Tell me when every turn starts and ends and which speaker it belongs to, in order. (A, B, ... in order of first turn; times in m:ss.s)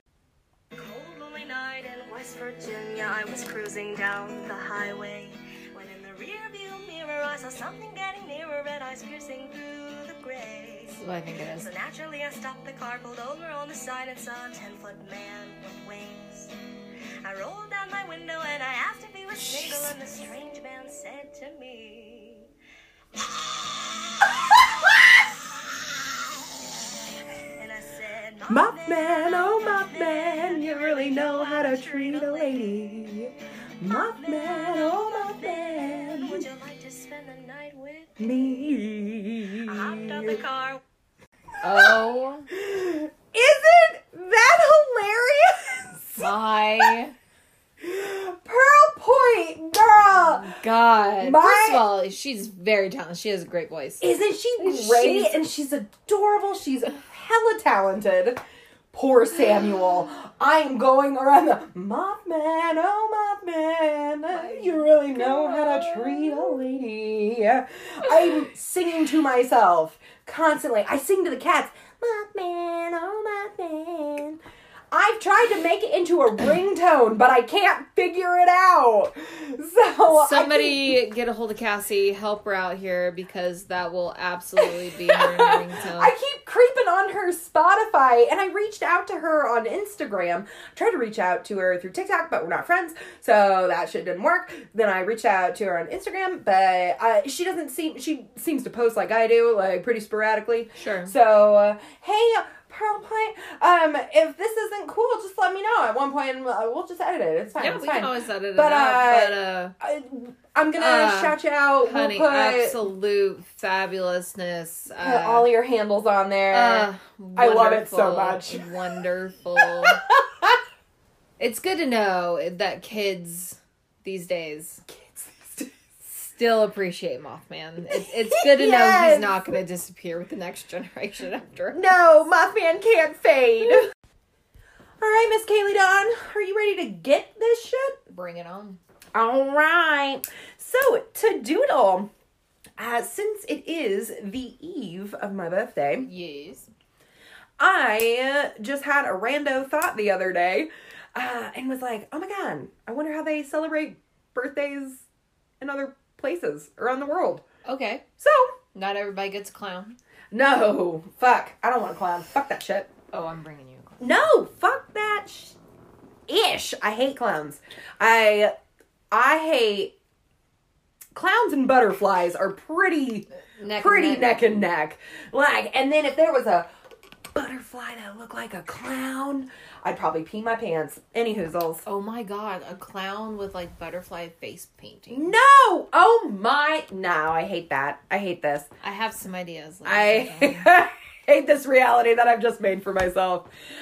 0:00.8-0:11.0 A
0:10.9-0:11.7 B
0:11.6-0:16.5 A
0:17.2-0:22.5 A
0:24.2-0:24.6 A
0:27.6-0:32.9 A
0:28.5-0:36.5 C
0:33.8-0:38.8 A
0:38.2-0:40.4 C
0:39.7-0:40.8 A
0:41.6-0:42.5 B
0:42.5-0:46.3 C
0:46.2-0:47.1 B
0:47.8-0:50.6 C
0:50.1-0:54.0 B
0:51.2-0:51.8 C
0:54.0-0:58.4 C
0:54.6-0:55.4 B
0:58.9-1:14.4 C
1:04.3-1:06.6 B
1:08.0-1:08.5 B
1:14.9-1:21.0 C
1:20.1-1:26.1 B
1:24.6-1:52.8 C
1:40.8-1:41.1 B
1:47.6-1:49.7 B
1:50.8-1:55.5 B
1:55.0-1:58.8 C
1:56.5-2:00.0 B
1:59.6-2:00.6 C
2:01.4-2:04.8 B
2:04.9-2:06.1 C
2:06.2-2:12.1 B
2:07.9-2:09.5 C
2:11.7-2:13.9 C
2:15.0-2:18.0 C
2:18.1-2:18.8 B
2:19.2-2:22.1 C
2:22.8-2:26.1 C
2:26.0-2:26.7 B
2:27.6-2:35.1 C
2:35.6-2:37.4 C
2:37.6-2:38.0 B
2:38.2-2:38.6 C
2:38.7-2:40.0 B
2:40.3-2:42.9 C
2:43.1-2:44.0 B
2:44.0-2:45.6 C
2:46.3-2:48.5 C
2:49.1-2:49.9 C
2:51.2-2:56.7 C
2:53.6-2:54.5 B
2:57.3-3:01.9 C
3:01.9-3:05.3 B
3:05.1-3:08.7 C
3:08.8-3:10.7 B
3:09.8-3:13.5 C